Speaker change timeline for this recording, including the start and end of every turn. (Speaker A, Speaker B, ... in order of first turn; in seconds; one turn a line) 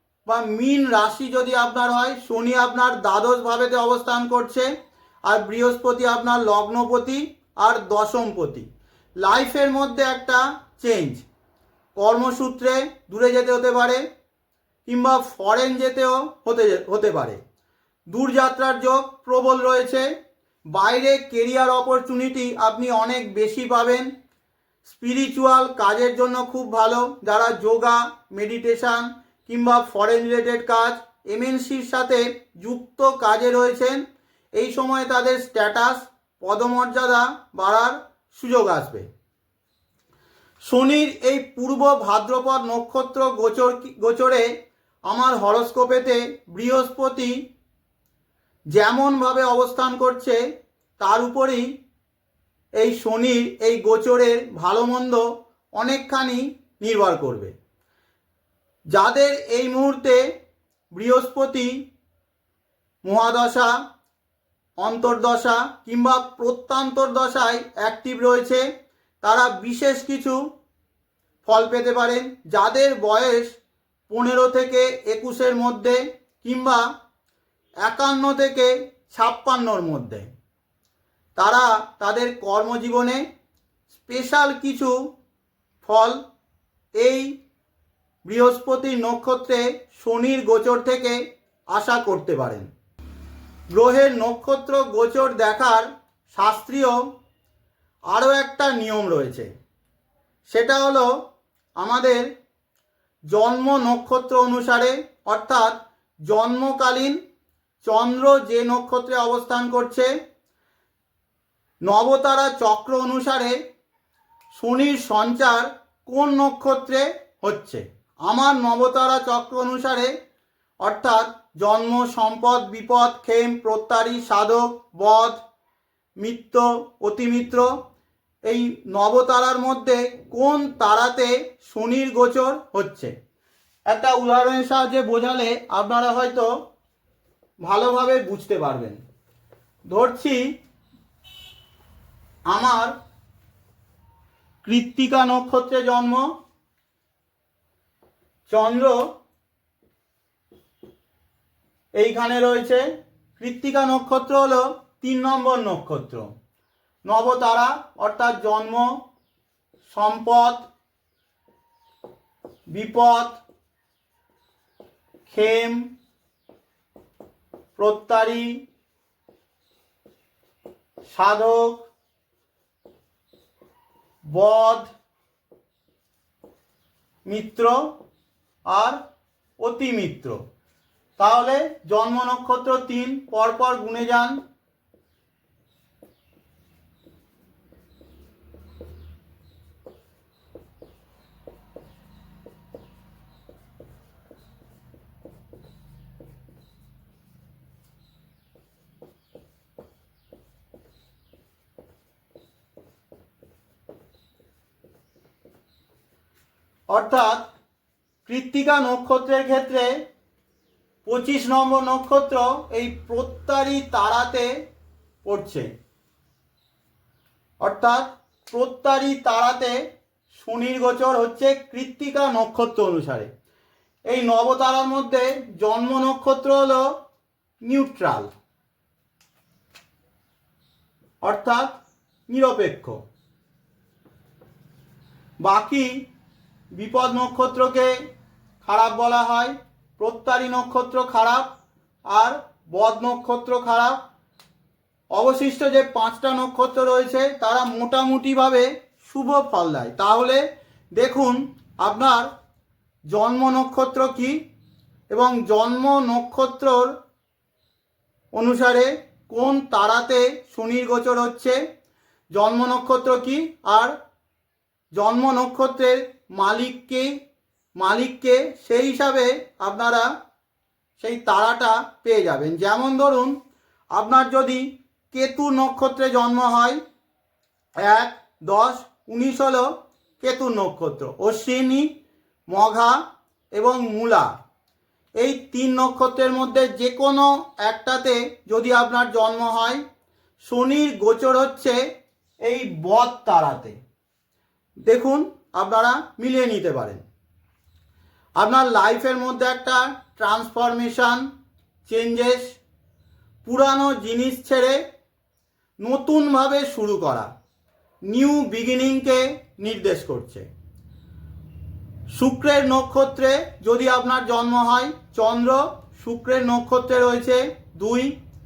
Speaker A: 0.2-4.7
Speaker A: 5.2-8.7
Speaker A: 9.2-11.2
Speaker A: 11.9-14.0
Speaker A: 14.8-17.4
Speaker A: 18.1-20.1
Speaker A: 20.7-24.1
Speaker A: 24.8-34.0
Speaker A: 34.5-39.1
Speaker A: 40.6-44.5
Speaker A: 45.1-47.4
Speaker A: 48.7-50.4
Speaker A: 51.0-51.7
Speaker A: 52.8-57.5
Speaker A: 58.9-60.2
Speaker A: 60.9-61.7
Speaker A: 63.0-63.8
Speaker A: 64.8-68.6
Speaker A: 69.2-70.4
Speaker A: 71.4-73.6
Speaker A: 74.1-76.8
Speaker A: 77.8-80.3
Speaker A: 81.3-83.2
Speaker A: 83.9-85.0
Speaker A: 85.8-86.2
Speaker A: 87.0-87.3
Speaker A: 88.2-92.7
Speaker A: 93.7-97.0
Speaker A: 98.1-99.5
Speaker A: 100.5-101.2
Speaker A: 101.8-102.3
Speaker A: 103.3-107.2
Speaker A: 107.8-110.1
Speaker A: 111.8-113.6
Speaker A: 114.5-120.1
Speaker A: 120.8-125.4
Speaker A: 126.2-127.7
Speaker A: 128.4-133.1
Speaker A: 133.9-136.5
Speaker A: 137.6-139.0
Speaker A: 139.9-140.5
Speaker A: 142.5-142.9
Speaker A: 144.6-146.3
Speaker A: 148.5-149.1
Speaker A: 152.0-156.3
Speaker A: 157.1-159.0
Speaker A: 159.9-160.7
Speaker A: 162.7-163.4
Speaker A: 165.3-165.9
Speaker A: 167.8-168.6
Speaker A: 171.1-171.9
Speaker A: 174.3-174.9
Speaker A: 177.3-177.9
Speaker A: 178.7-179.0
Speaker A: 179.6-180.4
Speaker A: 181.2-184.4
Speaker A: 206.9-207.5
Speaker A: 208.2-210.0
Speaker A: 211.0-214.6
Speaker A: 215.2-215.7
Speaker A: 217.6-219.8
Speaker A: 220.3-223.3
Speaker A: 224.1-226.9
Speaker A: 227.6-228.3
Speaker A: 231.2-233.0
Speaker A: 235.4-236.0
Speaker A: 236.7-238.1
Speaker A: 238.6-241.6
Speaker A: 242.1-244.0
Speaker A: 245.1-250.4
Speaker A: 250.9-252.3
Speaker A: 253.1-254.4
Speaker A: 255.1-256.9
Speaker A: 258.3-261.6
Speaker A: 262.3-263.9
Speaker A: 264.9-267.1
Speaker A: 267.8-270.1
Speaker A: 271.0-273.4
Speaker A: 273.9-276.8
Speaker A: 277.8-281.9
Speaker A: 282.5-283.0
Speaker A: 283.5-284.3
Speaker A: 285.2-289.8
Speaker A: 290.4-291.9
Speaker A: 292.4-293.8
Speaker A: 294.8-297.0
Speaker A: 298.4-301.3
Speaker A: 301.9-302.6
Speaker A: 303.4-304.8
Speaker A: 305.8-307.3
Speaker A: 308.1-310.5
Speaker A: 312.1-318.1